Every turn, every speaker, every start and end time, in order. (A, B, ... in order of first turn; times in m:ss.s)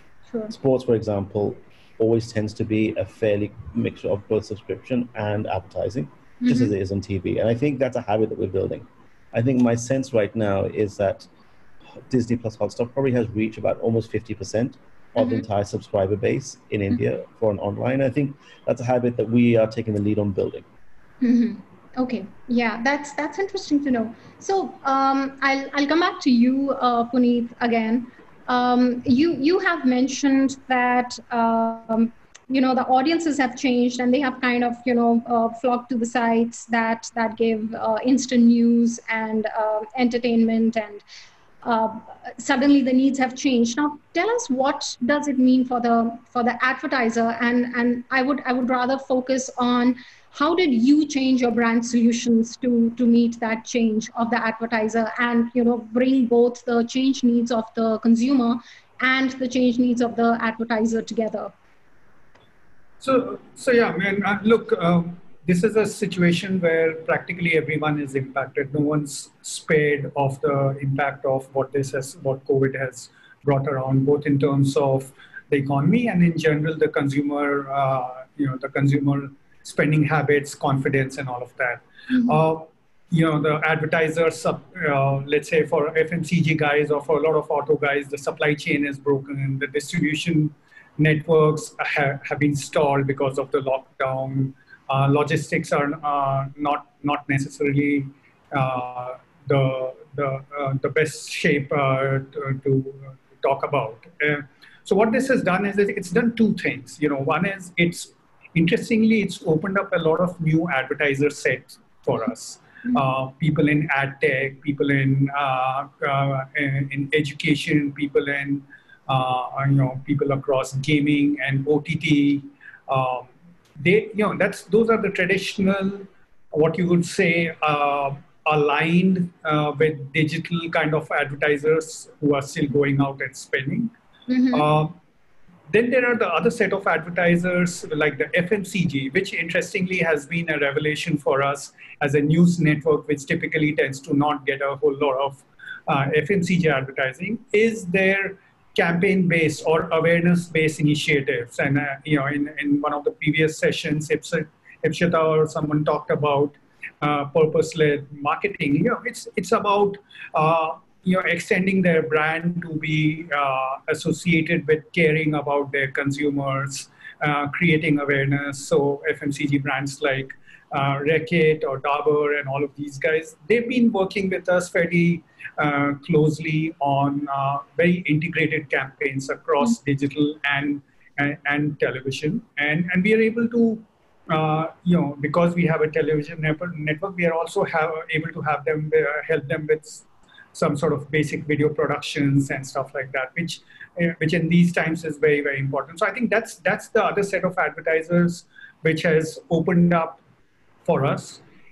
0:00.3-0:00.5 A
0:00.5-0:11.3 B
0:06.4-0:06.7 A
0:12.1-0:20.6 B
0:15.2-0:15.4 A
0:21.2-0:41.0 A
0:41.6-1:01.5 A
1:03.0-2:13.9 C
2:14.3-2:14.7 A
2:14.5-2:15.0 C
2:15.7-3:20.2 C
3:20.8-3:21.4 C